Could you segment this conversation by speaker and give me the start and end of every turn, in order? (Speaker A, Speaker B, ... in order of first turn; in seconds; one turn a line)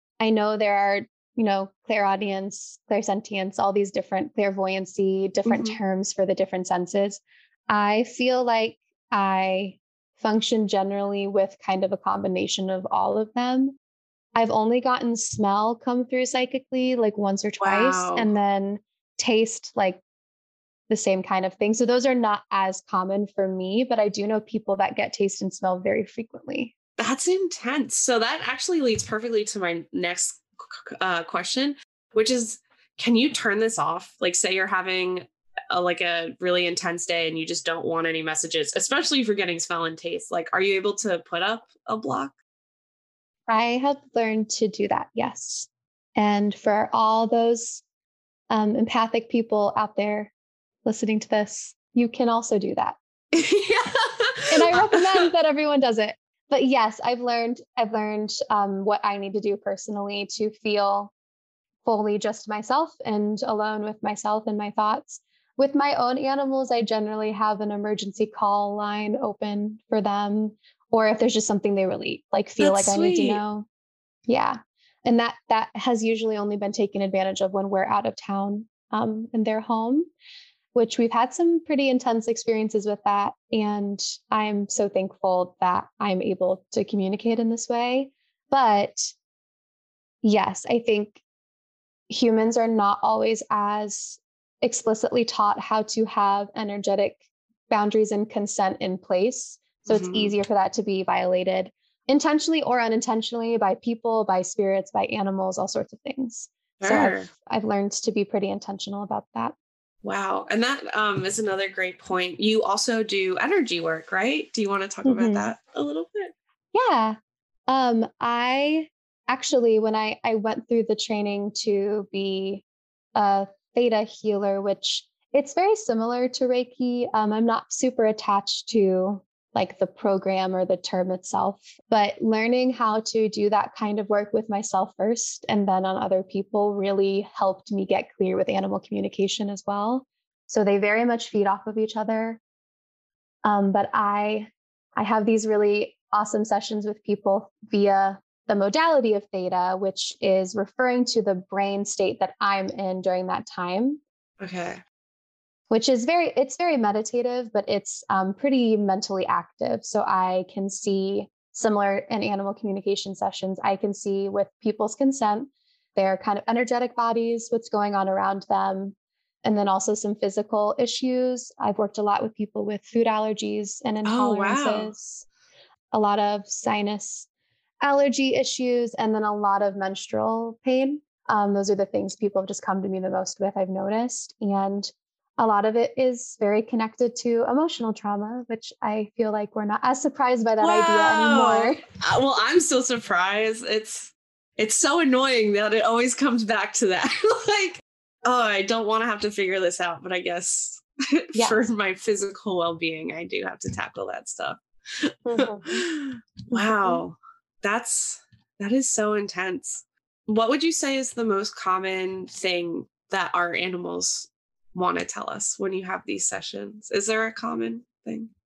Speaker A: 0.2-13.7
Speaker B: 5.5-5.8
Speaker A: 14.3-20.0
Speaker B: 17.6-18.3
Speaker A: 20.9-26.7
Speaker B: 27.0-42.3
Speaker A: 43.5-47.8
Speaker A: 48.5-50.3
Speaker A: 50.8-53.0
Speaker B: 53.3-55.3
Speaker A: 54.5-61.1
Speaker A: 61.8-73.7
Speaker B: 72.6-73.4
Speaker A: 74.3-80.1
Speaker A: 80.7-89.1
Speaker A: 90.2-91.2
Speaker A: 92.1-109.5
Speaker B: 99.9-100.3
Speaker B: 106.8-107.3
Speaker B: 110.0-116.3
Speaker A: 115.0-115.5
Speaker A: 116.7-122.6
Speaker A: 123.1-142.4
Speaker A: 143.4-154.0
Speaker B: 154.4-154.8
Speaker A: 155.7-175.2
Speaker B: 174.0-174.9
Speaker A: 175.9-177.3
Speaker A: 177.8-191.8
Speaker B: 190.6-218.3
Speaker A: 201.3-201.6
Speaker A: 205.3-205.8
Speaker A: 206.5-207.0